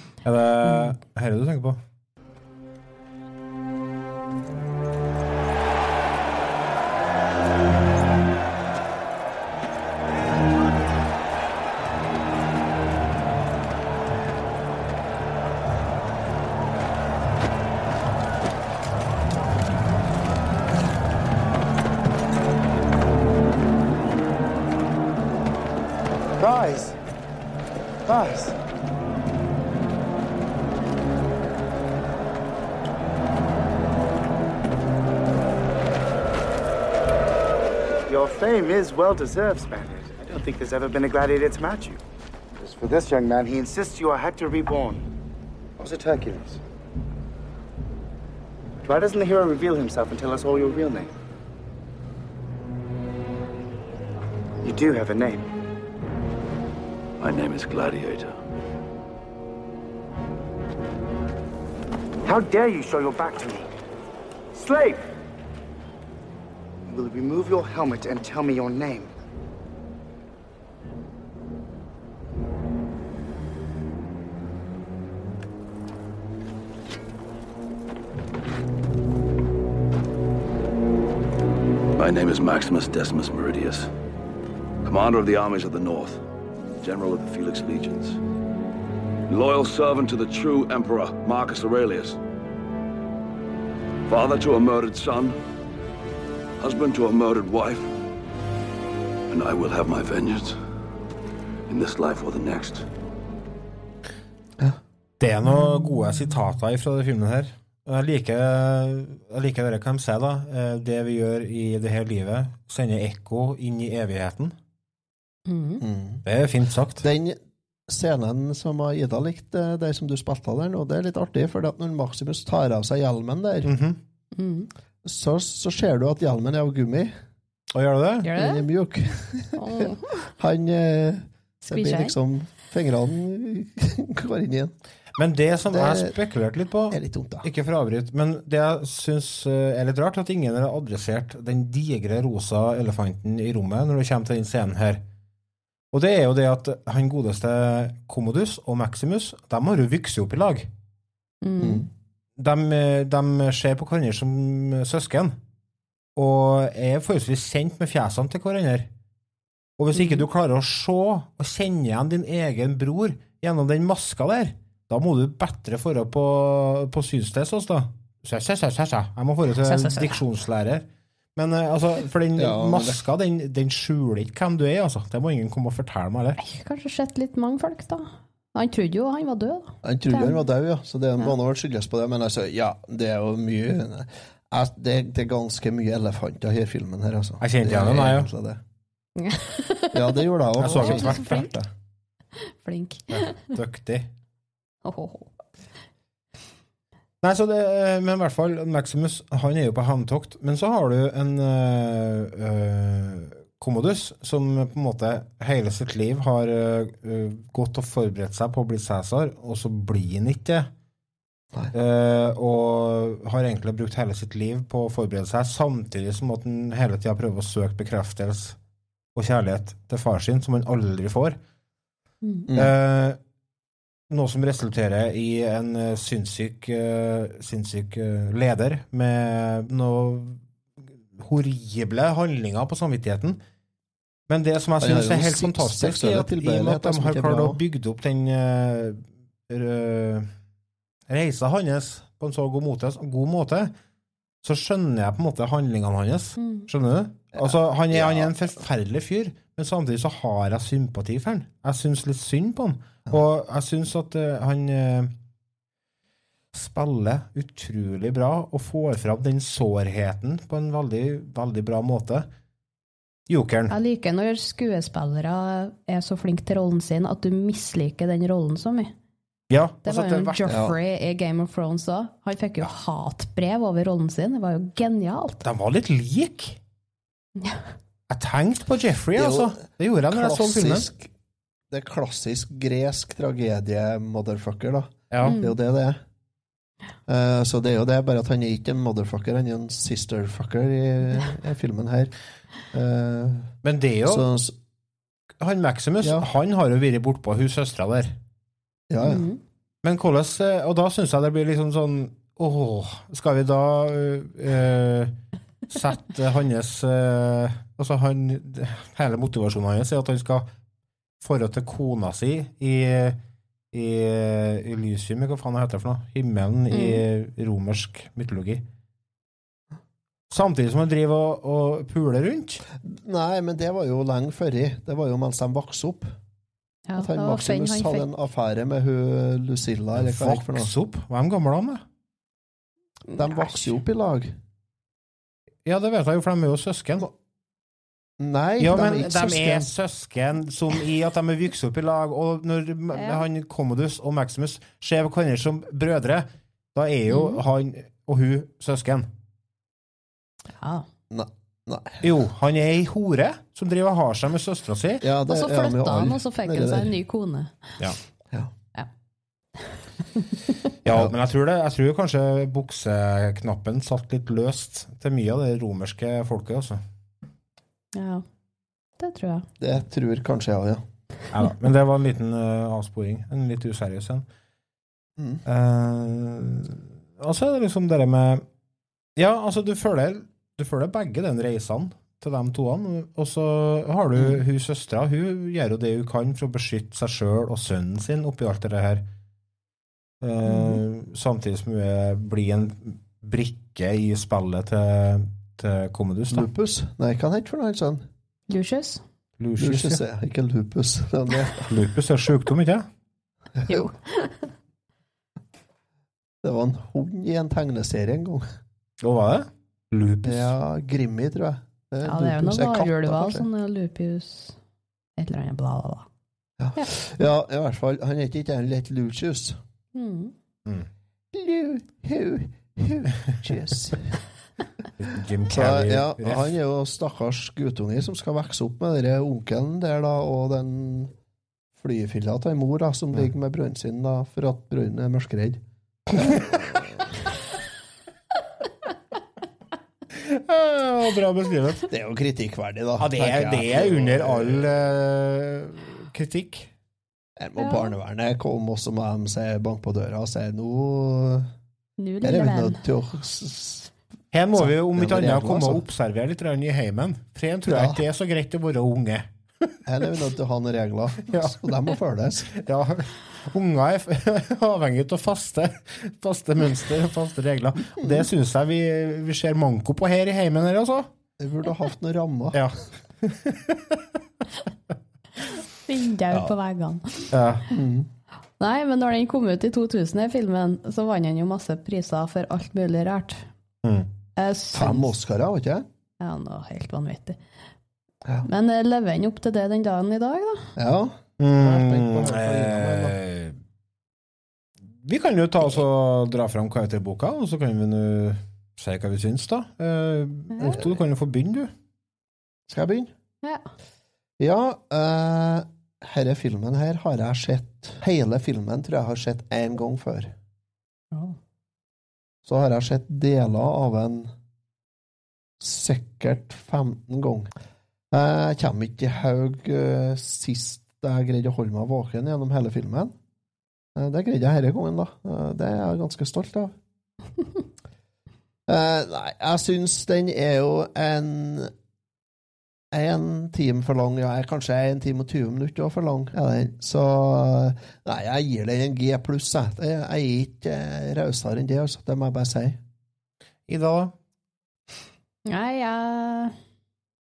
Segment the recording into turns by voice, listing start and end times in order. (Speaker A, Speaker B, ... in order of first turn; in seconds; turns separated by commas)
Speaker A: 0.2-1.8, Speaker B: 26.4-27.0, Speaker B: 28.1-28.6, Speaker B: 38.1-42.0, Speaker B: 42.6-45.0, Speaker B: 45.8-46.6, Speaker B: 48.8-51.1, Speaker B: 54.6-55.5, Speaker C: 57.2-58.4, Speaker B: 62.2-63.7, Speaker B: 64.5-65.0, Speaker B: 66.9-69.1, Speaker C: 82.0-83.9, Speaker C: 84.8-86.2, Speaker C: 86.8-88.2, Speaker C: 89.3-92.2, Speaker C: 94.1-95.4, Speaker C: 96.6-97.9, Speaker C: 99.3-100.6, Speaker C: 101.7-102.9, Speaker A: 105.2-114.5, Speaker D: 115.5-115.8, Speaker E: 115.8-116.2, Speaker A: 116.2-117.1, Speaker E: 117.0-123.7, Speaker A: 123.7-124.0, Speaker D: 124.3-124.7, Speaker E: 125.0-127.1, Speaker A: 127.7-128.3, Speaker D: 128.2-128.7, Speaker E: 128.3-134.7, Speaker D: 129.6-130.3, Speaker D: 131.6-132.2, Speaker A: 135.2-145.0, Speaker E: 135.7-136.2, Speaker E: 136.9-137.5, Speaker A: 145.9-150.7, Speaker D: 151.4-151.9, Speaker E: 151.6-151.9, Speaker A: 152.4-155.4, Speaker A: 156.2-158.9, Speaker A: 159.8-176.4, Speaker D: 169.6-170.2, Speaker E: 172.3-173.0, Speaker D: 176.4-180.4, Speaker E: 179.8-188.6, Speaker A: 187.4-188.3, Speaker D: 189.2-191.5, Speaker E: 189.9-191.7, Speaker A: 190.6-191.4, Speaker D: 192.4-193.4, Speaker A: 193.1-194.1, Speaker D: 194.8-195.3, Speaker A: 197.2-210.7, Speaker A: 211.7-218.6, Speaker A: 219.2-221.4, Speaker E: 222.5-222.7, Speaker A: 222.6-223.2, Speaker A: 224.1-230.4, Speaker A: 231.1-233.4, Speaker A: 234.3-240.3, Speaker E: 234.8-237.6, Speaker A: 241.1-243.7, Speaker A: 244.4-255.1, Speaker D: 246.4-246.7, Speaker E: 247.3-248.4, Speaker A: 256.5-262.3, Speaker A: 263.3-263.7, Speaker D: 263.7-268.9, Speaker A: 269.5-270.6, Speaker D: 269.9-275.4, Speaker E: 270.5-270.8, Speaker A: 275.4-276.6, Speaker D: 277.4-277.7, Speaker A: 278.1-280.9, Speaker E: 279.1-281.1, Speaker E: 281.7-286.0, Speaker A: 285.1-285.4, Speaker D: 285.2-285.5, Speaker E: 287.1-292.1, Speaker E: 292.7-293.5, Speaker A: 293.6-294.3, Speaker E: 294.1-294.6, Speaker A: 295.4-298.2, Speaker E: 298.9-299.3, Speaker D: 299.0-299.4, Speaker A: 299.8-305.1, Speaker A: 305.7-310.5, Speaker A: 311.2-313.2, Speaker A: 313.7-318.6, Speaker D: 316.7-317.0, Speaker A: 320.3-322.6, Speaker E: 322.8-326.1, Speaker D: 326.9-328.1, Speaker E: 327.0-330.7, Speaker A: 329.9-331.8, Speaker D: 333.1-333.8, Speaker E: 333.1-334.4, Speaker A: 335.6-337.1, Speaker E: 338.2-339.7, Speaker A: 338.6-349.1, Speaker D: 342.9-343.2, Speaker D: 347.1-347.4, Speaker D: 350.6-350.9, Speaker E: 351.1-352.0, Speaker A: 352.0-355.1, Speaker E: 355.0-356.9, Speaker D: 355.3-357.8, Speaker D: 359.6-360.6, Speaker A: 360.8-366.8, Speaker E: 360.9-361.1, Speaker D: 367.9-368.2, Speaker D: 369.0-369.5, Speaker E: 369.6-370.8, Speaker A: 371.3-374.2, Speaker E: 375.2-375.4, Speaker A: 375.5-378.4, Speaker A: 379.2-389.0, Speaker E: 384.1-384.4, Speaker A: 390.2-396.5, Speaker E: 396.3-398.1, Speaker D: 398.5-399.0, Speaker A: 399.4-400.0, Speaker E: 399.6-401.8, Speaker A: 401.7-402.9, Speaker E: 403.6-403.8, Speaker D: 403.7-404.5, Speaker E: 406.4-408.5, Speaker A: 409.0-410.5, Speaker E: 410.2-413.5, Speaker D: 412.1-414.6, Speaker D: 415.2-416.1, Speaker E: 416.6-419.6, Speaker D: 419.9-420.3, Speaker E: 421.3-424.2, Speaker A: 425.0-426.5, Speaker E: 425.5-431.1, Speaker E: 431.8-435.6, Speaker A: 436.1-436.8, Speaker E: 436.1-437.0, Speaker A: 440.1-441.9, Speaker E: 441.9-444.9, Speaker A: 443.0-446.7, Speaker E: 447.4-451.5, Speaker D: 447.6-447.9, Speaker D: 452.0-452.8, Speaker E: 452.2-453.9, Speaker A: 454.3-459.7, Speaker E: 454.6-455.8, Speaker E: 457.7-458.0, Speaker E: 459.9-462.5, Speaker A: 461.3-461.9, Speaker A: 462.5-471.1, Speaker E: 468.0-468.3, Speaker E: 471.4-472.6, Speaker A: 472.5-474.2, Speaker D: 475.5-477.3, Speaker A: 477.3-477.6, Speaker E: 477.7-478.1, Speaker D: 478.6-483.5, Speaker A: 483.8-484.1, Speaker D: 484.4-485.1, Speaker E: 484.7-485.9, Speaker D: 486.2-487.4, Speaker D: 488.4-490.7, Speaker E: 490.8-493.2, Speaker A: 491.4-493.6, Speaker A: 495.0-501.7, Speaker D: 500.6-500.8, Speaker E: 500.6-501.0, Speaker E: 502.7-503.1, Speaker D: 503.4-503.7, Speaker E: 504.4-510.4, Speaker D: 511.1-511.4, Speaker E: 512.5-514.3, Speaker E: 515.6-517.5, Speaker E: 518.1-523.1, Speaker E: 524.0-526.7, Speaker E: 528.7-531.7, Speaker E: 532.9-542.8, Speaker A: 543.7-544.1, Speaker D: 545.5-546.5